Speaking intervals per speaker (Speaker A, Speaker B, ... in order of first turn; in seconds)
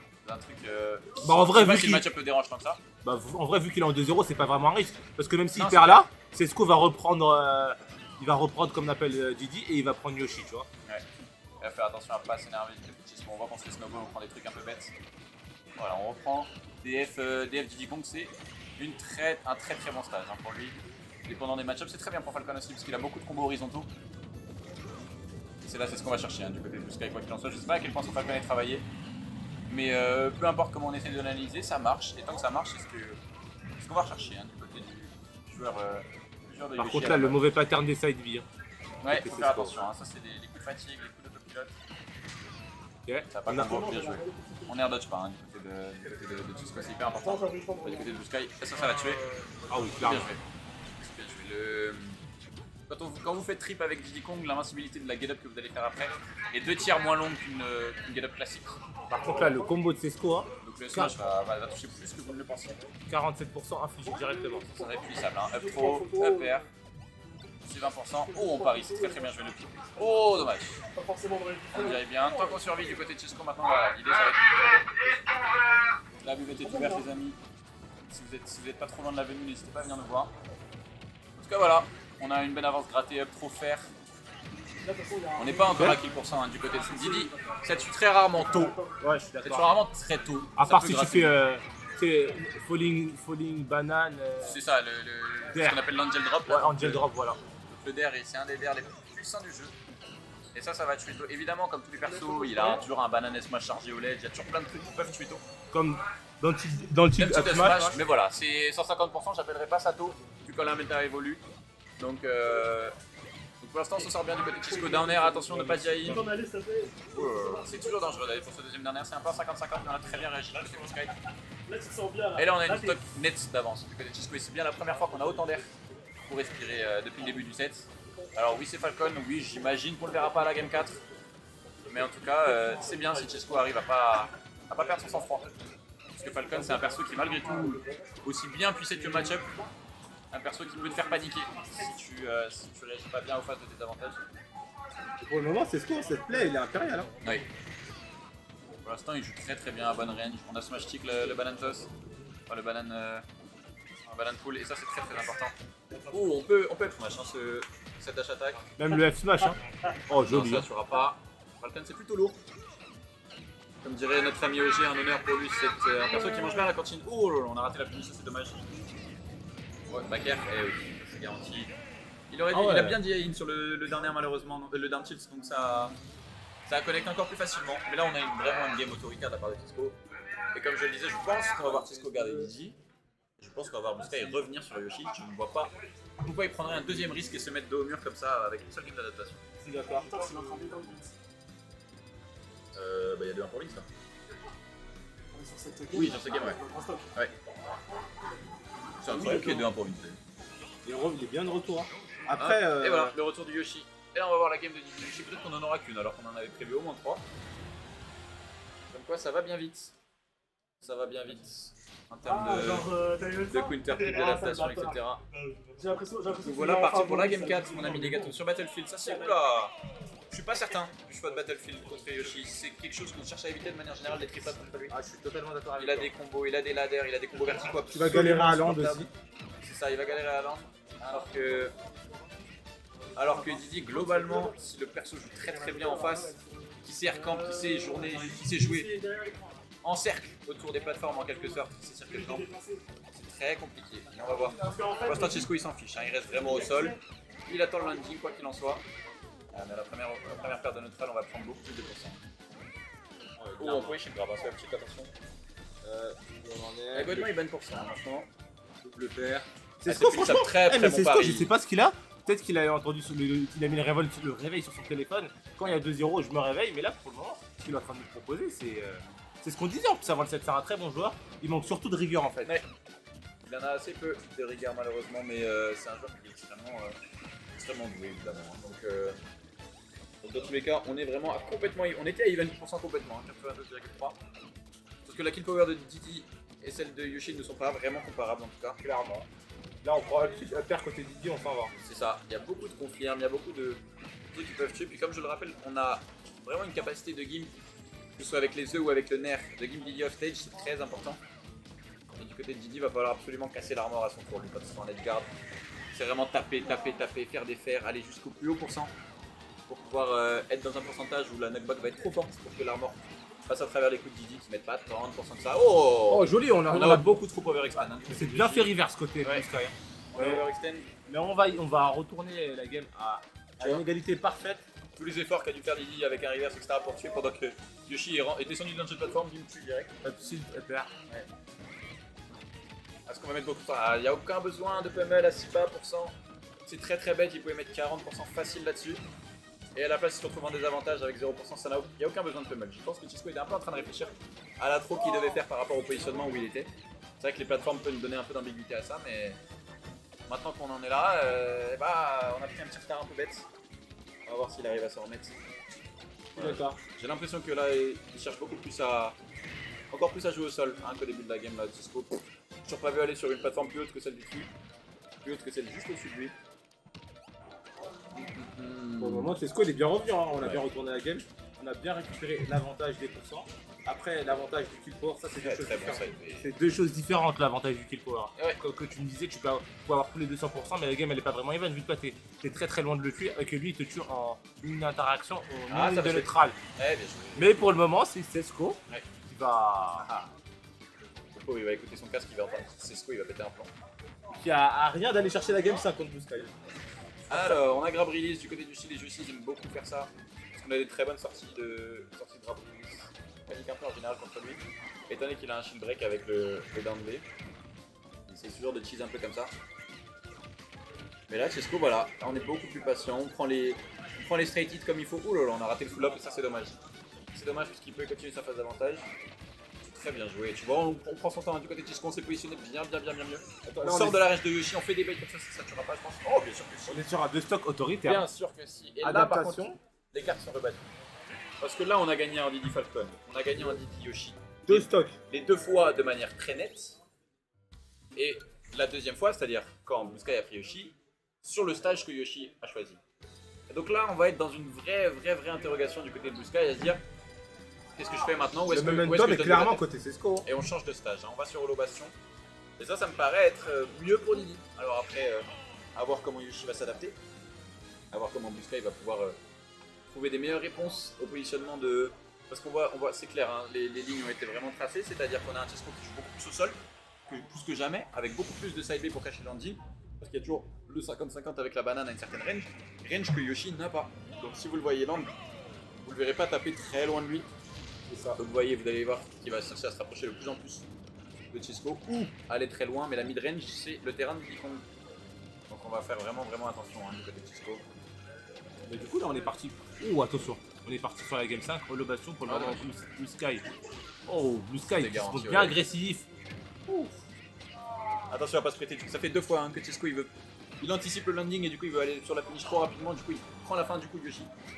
Speaker A: 0.2-2.8, 5.5-6.0, 11.6-14.9, 15.8-23.9, 25.6-28.9, 29.7-33.2, 33.8-37.4, 39.0-41.7, 43.3-49.3, 50.0-50.4, 51.0-52.2, 52.9-58.8, 60.6-62.8, 64.7-66.7, 67.6-70.8, 71.7-75.2, 76.2-77.4, 78.1-80.3, 81.4-83.9, 85.4-88.8, 89.4-91.3, 94.4-97.0, 97.7-99.7, 100.5-105.4, 107.2-111.4, 112.0-112.9, 113.6-116.2, 117.1-121.1, 122.3-125.7, 126.2-131.0, 131.8-135.5, 136.2-139.5, 140.3-144.2, 148.8-151.9, 152.5-153.2, 154.1-155.5, 156.1-158.7, 160.2-162.4, 163.8-168.7, 169.9-171.7, 172.3-175.9, 176.7-180.0, 180.5-182.8, 183.4-189.4, 192.7-193.9, 195.9-196.6, 199.0-200.2, 202.3-207.2, 208.9-209.9, 210.8-212.9, 213.4-215.2, 216.3-219.7, 220.3-225.0, 225.8-229.1, 229.6-231.7, 233.1-238.9, 239.8-242.5, 243.1-248.8, 249.5-252.2, 253.6-255.1, 256.9-258.3, 258.8-261.5, 273.4-276.9, 277.5-279.2, 280.2-284.1, 285.0-288.8, 291.8-297.5, 298.1-301.2, 302.1-305.3, 305.9-308.9, 309.7-319.5, 320.1-320.9, 324.9-329.9, 333.1-336.1, 336.7-339.0, 339.8-349.4, 350.3-353.4, 354.2-355.3, 356.3-359.1, 359.9-364.5, 365.2-366.3, 368.1-369.3, 375.4-376.5, 385.7-387.6, 390.0-390.3, 391.3-393.7, 397.3-407.2, 408.3-409.5, 411.3-416.8, 417.3-419.1, 419.8-427.0, 428.0-430.9, 431.6-437.0, 438.1-443.0, 443.7-447.0, 447.9-449.8, 450.4-452.1, 452.8-457.1, 458.1-459.4, 460.1-475.3, 476.0-477.5, 478.4-480.9, 481.5-484.8, 485.7-487.8, 492.4-492.9, 494.9-495.8, 498.3-504.5
Speaker B: 1.2-2.0, 3.0-10.7, 36.8-38.5, 39.1-39.7, 43.0-43.8, 49.7-50.3, 59.1-61.1, 63.1-64.7, 89.0-89.7, 90.5-94.6, 95.5-95.8, 96.5-97.4, 105.7-108.0, 115.5-116.2, 145.2-147.2, 158.8-160.7, 172.5-173.0, 181.6-182.5, 189.6-190.4, 200.8-203.1, 224.9-226.1, 227.9-229.1, 253.4-254.0, 255.8-257.3, 259.8-272.6, 288.8-289.3, 289.8-291.7, 316.1-317.2, 318.1-320.4, 321.1-324.6, 330.0-330.9, 356.4-356.8, 369.0-386.6, 387.4-390.1, 394.3-396.5, 397.3-397.6, 423.6-424.2, 426.9-428.2, 429.0-429.8, 434.7-435.1, 448.7-450.5, 478.1-478.4, 488.9-493.6, 494.2-496.2
Speaker C: 43.6-44.7, 47.2-48.1, 64.0-65.0, 65.5-66.6, 68.3-69.3, 70.9-72.0, 76.7-77.0, 84.8-86.0, 86.9-87.6, 88.5-88.9, 102.2-102.8, 114.8-115.3, 116.0-117.1, 121.7-123.0, 190.0-191.1, 195.3-197.1, 199.2-199.6, 212.3-218.3, 237.6-239.4, 242.3-242.8, 244.6-245.5